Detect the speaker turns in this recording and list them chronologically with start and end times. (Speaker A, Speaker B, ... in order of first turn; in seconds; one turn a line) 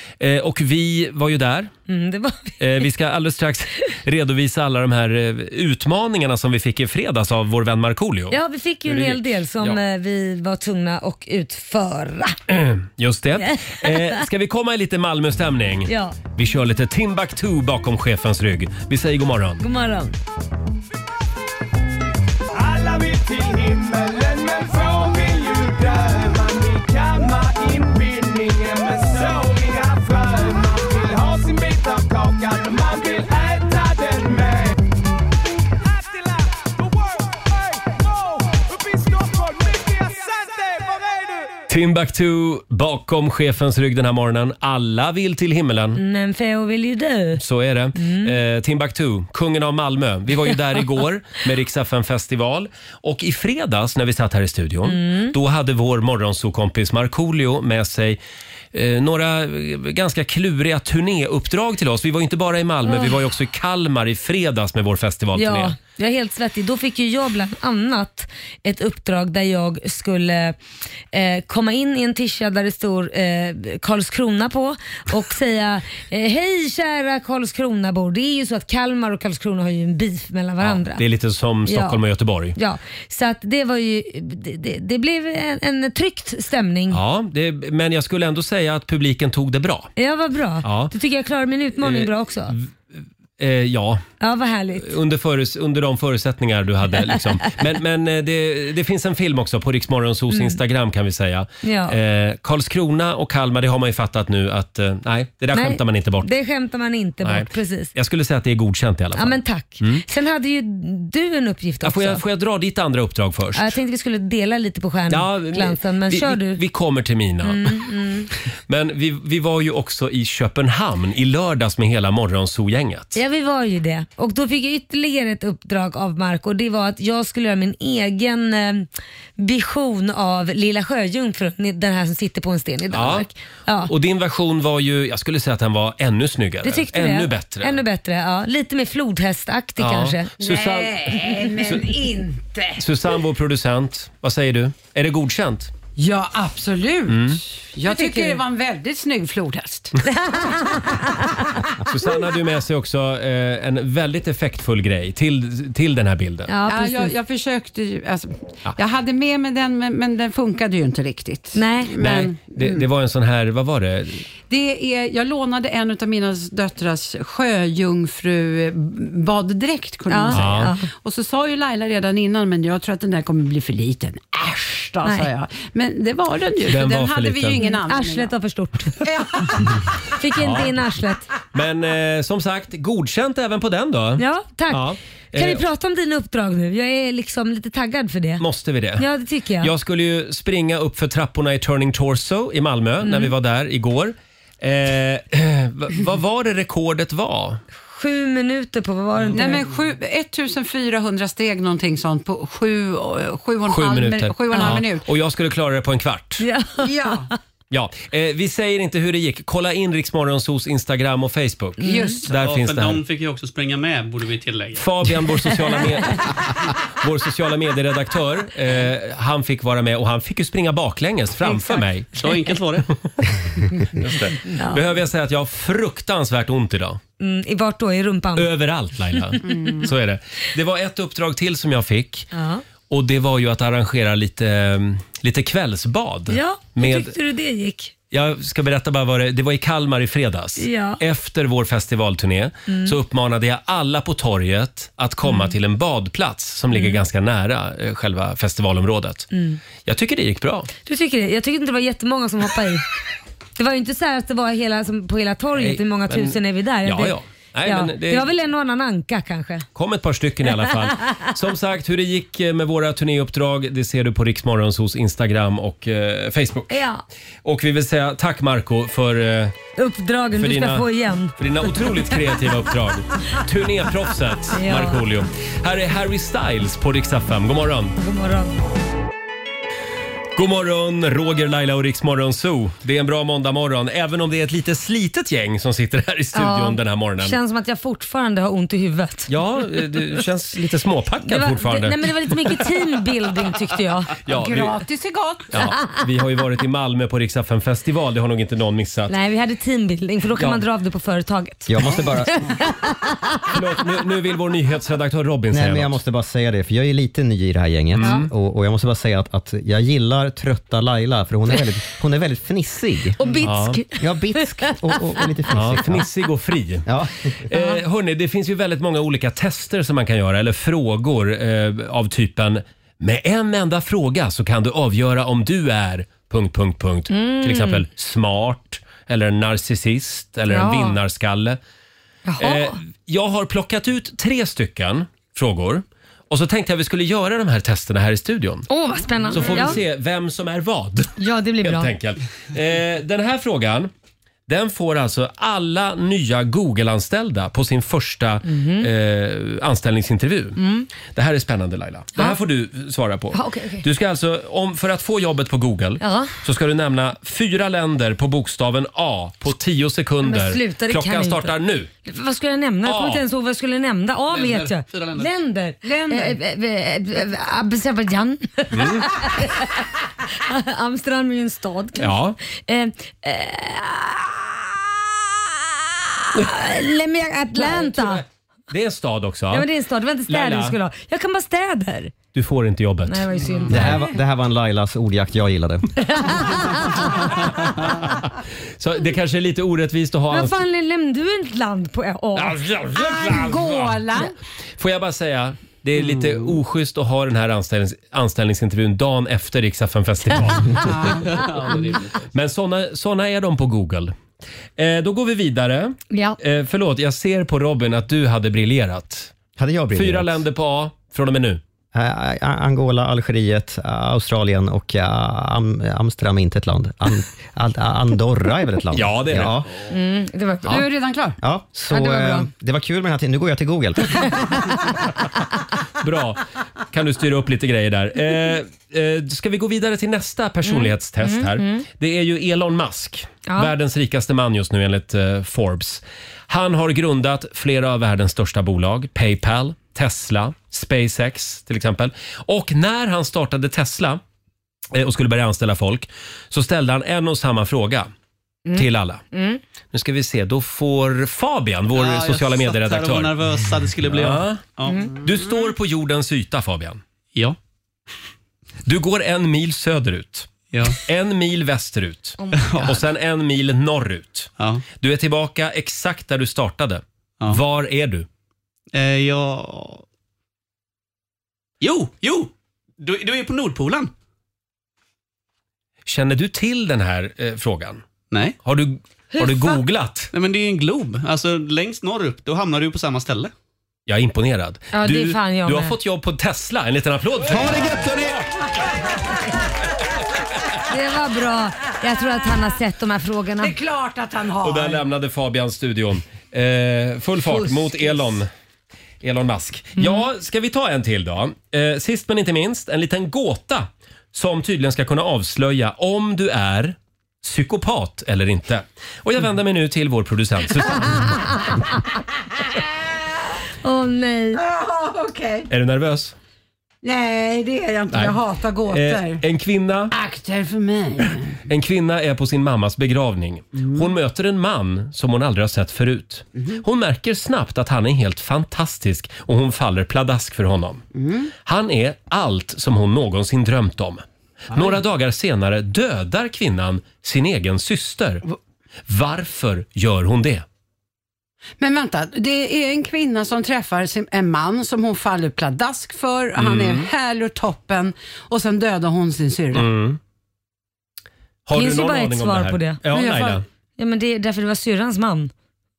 Speaker A: 0.2-1.7
Speaker B: 1.9-2.8
Speaker A: 2.6-9.8
Speaker B: 8.3-12.4
Speaker A: 12.5-19.6
Speaker B: 13.4-14.2
Speaker B: 15.9-16.2
Speaker B: 19.6-20.1
Speaker C: 22.5-34.8
Speaker C: 35.9-41.5
Speaker A: 41.7-46.0
Speaker B: 45.9-47.4
Speaker A: 47.4-58.2
Speaker B: 48.0-48.3
Speaker B: 54.8-55.3
Speaker A: 58.7-65.8
Speaker B: 62.9-63.1
Speaker B: 65.3-70.6
Speaker B: 71.1-81.0
Speaker A: 80.6-82.5
Speaker B: 81.7-82.0
Speaker B: 82.5-87.0
Speaker A: 86.9-89.9
Speaker B: 90.0-92.5
Speaker A: 90.6-90.9
Speaker A: 91.8-94.0
Speaker B: 94.2-94.9
Speaker A: 94.8-106.3
Speaker B: 100.3-100.6
Speaker B: 101.6-102.0
Speaker B: 105.5-107.9
Speaker A: 107.2-110.0
Speaker B: 109.2-112.2
Speaker A: 111.8-113.8
Speaker B: 113.5-116.6
Speaker A: 115.1-117.8
Speaker B: 117.4-118.3
Speaker A: 118.7-123.2
Speaker B: 123.1-133.9
Speaker A: 132.9-133.3
Speaker A: 133.9-137.8
Speaker B: 136.6-140.5
Speaker A: 139.8-141.9
Speaker D: 140.4-142.8
Speaker A: 142.8-145.7
Speaker D: 146.0-149.9
Speaker A: 147.1-147.4
Speaker B: 147.8-148.4
Speaker B: 150.1-151.4
Speaker A: 151.8-156.5
Speaker B: 156.5-157.1
Speaker D: 156.7-162.8
Speaker B: 161.5-162.3
Speaker A: 162.0-164.2
Speaker D: 164.5-178.3
Speaker B: 170.1-170.9
Speaker A: 170.3-170.7
Speaker A: 176.7-177.6
Speaker B: 177.5-179.5
Speaker D: 179.0-179.9
Speaker B: 180.2-181.3
Speaker A: 180.4-180.7
Speaker A: 181.5-185.6
Speaker B: 184.2-188.4
Speaker A: 188.4-189.1
Speaker B: 189.0-189.7
Speaker A: 189.6-197.6
Speaker B: 193.0-193.3
Speaker B: 197.8-199.6
Speaker D: 199.3-205.1
Speaker A: 203.7-206.4
Speaker B: 204.5-204.8
Speaker B: 206.4-207.2
Speaker D: 206.8-207.3
Speaker A: 207.7-213.0
Speaker B: 211.8-212.1
Speaker D: 211.8-212.3
Speaker E: 212.3-215.1
Speaker A: 214.8-216.5
Speaker A: 217.0-222.1
Speaker E: 222.1-222.9
Speaker A: 223.9-227.0
Speaker B: 224.5-224.8
Speaker B: 227.2-228.5
Speaker A: 228.3-232.3
Speaker D: 229.4-229.9
Speaker B: 232.3-232.6
Speaker A: 232.9-237.1
Speaker B: 236.3-237.9
Speaker A: 238.1-249.3
Speaker B: 240.6-241.0
Speaker B: 242.7-242.9
Speaker B: 245.2-245.5
Speaker B: 246.7-247.0
Speaker B: 249.3-249.6
Speaker A: 249.8-250.7
Speaker B: 250.8-252.8
Speaker B: 253.6-259.6
Speaker A: 255.6-258.3
Speaker A: 259.7-266.8
Speaker B: 260.6-261.3
Speaker B: 266.7-267.0
Speaker A: 267.4-269.5
Speaker B: 269.8-271.9
Speaker A: 270.4-277.9
Speaker B: 274.5-275.0
Speaker B: 278.0-278.5
Speaker A: 280.4-287.4
Speaker B: 286.3-289.3
Speaker A: 289.3-292.5
Speaker B: 291.2-294.1
Speaker A: 294.2-294.8
Speaker D: 294.3-295.5
Speaker A: 295.5-299.1
Speaker B: 299.1-303.5
Speaker A: 300.4-300.6
Speaker F: 301.7-302.5
Speaker A: 303.5-306.0
Speaker F: 305.5-313.2
Speaker A: 307.9-308.3
Speaker B: 308.0-308.3
Speaker B: 313.2-315.2
Speaker A: 313.4-313.8
Speaker F: 313.9-316.1
Speaker A: 315.5-316.9
Speaker F: 316.9-317.3
Speaker A: 317.5-331.6
Speaker B: 317.5-317.8
Speaker B: 327.1-327.8
Speaker B: 330.5-331.0
Speaker B: 332.2-332.8
Speaker A: 332.4-338.7
Speaker B: 338.7-339.8
Speaker A: 339.3-343.9
Speaker B: 341.2-341.9
Speaker A: 344.5-350.6
Speaker B: 348.4-348.9
Speaker B: 350.6-350.9
Speaker A: 351.1-361.9
Speaker B: 353.3-353.9
Speaker B: 356.0-356.3
Speaker B: 360.2-374.8
Speaker A: 362.8-363.2
Speaker E: 364.3-365.3
Speaker A: 368.7-369.1
Speaker A: 372.0-372.4
Speaker B: 376.2-378.2
Speaker A: 377.5-379.7
Speaker B: 379.5-382.1
Speaker A: 380.3-380.8
Speaker A: 382.3-383.9
Speaker B: 383.1-384.0
Speaker F: 383.7-385.9
Speaker B: 386.0-387.1
Speaker A: 388.8-390.6
Speaker B: 390.3-392.6
Speaker D: 392.9-394.3
Speaker A: 393.1-393.6
Speaker A: 394.8-401.4
Speaker D: 400.8-401.3
Speaker E: 401.3-402.1
Speaker A: 402.3-404.1
Speaker A: 404.8-409.3
Speaker B: 406.1-406.4
Speaker F: 409.6-410.4
Speaker A: 409.9-411.6
Speaker F: 411.9-419.7
Speaker A: 418.9-419.6
Speaker B: 419.9-420.8
Speaker D: 420.6-421.4
Speaker F: 421.4-424.4
Speaker B: 421.9-422.5
Speaker A: 426.0-444.2
Speaker B: 430.6-431.8
Speaker B: 433.5-433.7
Speaker A: 444.9-448.1
Speaker B: 448.6-449.6
Speaker A: 448.7-449.2
Speaker A: 449.9-454.6
Speaker E: 451.9-455.1
Speaker A: 455.2-457.0
Speaker A: 458.8-460.5
Speaker E: 460.7-461.0
Speaker A: 461.0-468.3
Speaker E: 462.6-462.9
Speaker E: 464.6-464.8
Speaker E: 468.9-470.0
Speaker E: 471.8-474.1
Speaker A: 476.1-478.0
Speaker E: 478.3-478.6
Speaker A: 478.6-480.3
Speaker B: 479.3-479.8
Speaker E: 480.3-483.5
Speaker A: 484.1-488.1
Speaker B: 484.9-485.9
Speaker C: 487.5-488.4
Speaker B: 490.9-493.7
Speaker D: 493.6-495.0
Speaker A: 494.6-498.5
Speaker D: 497.6-498.1
Speaker A: 499.2-511.4
Speaker B: 513.8-514.6
Speaker D: 514.5-515.7
Speaker A: 515.7-516.3
Speaker D: 517.0-519.4
Speaker A: 518.1-520.1
Speaker D: 520.1-521.6
Speaker A: 521.7-531.0
Speaker D: 523.8-524.1
Speaker D: 531.1-531.5
Speaker A: 531.6-538.4
Speaker A: 539.1-540.6
Speaker D: 541.8-549.9
Speaker A: 546.6-547.1
Speaker A: 549.7-550.2
Speaker A: 551.6-553.6
Speaker B: 551.7-553.0
Speaker D: 553.1-553.6
Speaker B: 554.0-555.5